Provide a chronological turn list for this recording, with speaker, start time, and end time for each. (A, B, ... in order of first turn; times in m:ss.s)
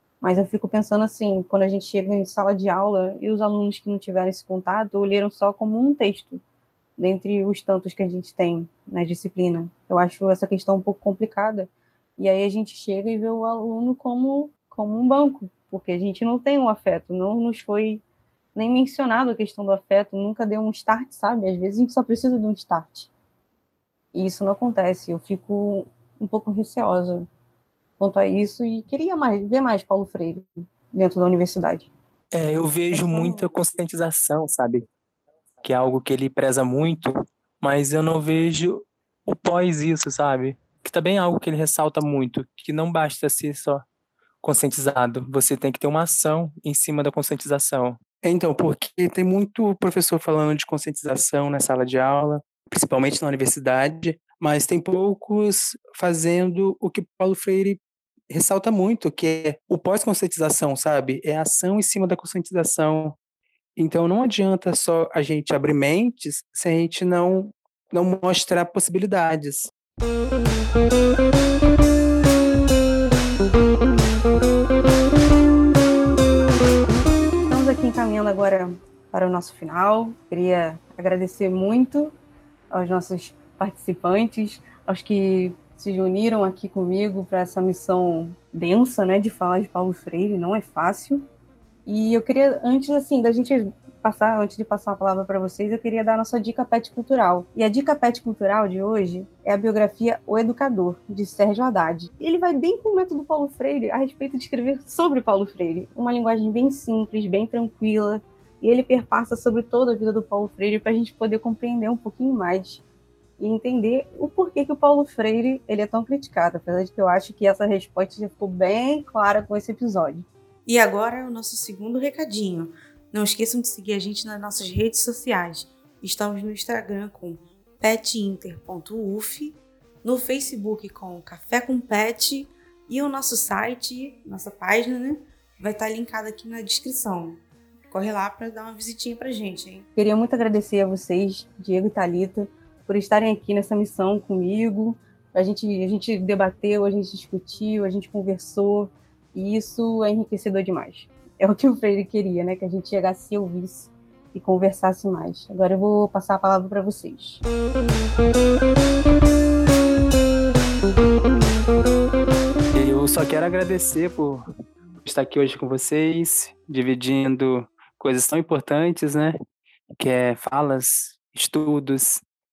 0:00.2-0:06.4 A
0:07.0-0:18.0 A
0:18.5-0:23.1 A
0:24.1-0:27.3 A
0:28.0-0:31.9 A
0:32.3-0:34.8 B
0:32.9-0:33.5 A
0:35.6-0:43.8 B
0:44.4-0:57.8 B
0:58.3-1:03.2 B
1:03.8-1:09.7 B
1:17.5-1:22.2 A
1:22.7-1:31.3 A
1:31.8-1:52.8 A
1:53.4-2:00.3 A
2:00.6-2:19.8 C
2:20.0-2:37.4 A
2:42.7-2:44.5 B
2:45.0-2:49.4 B
2:50.0-2:52.2 B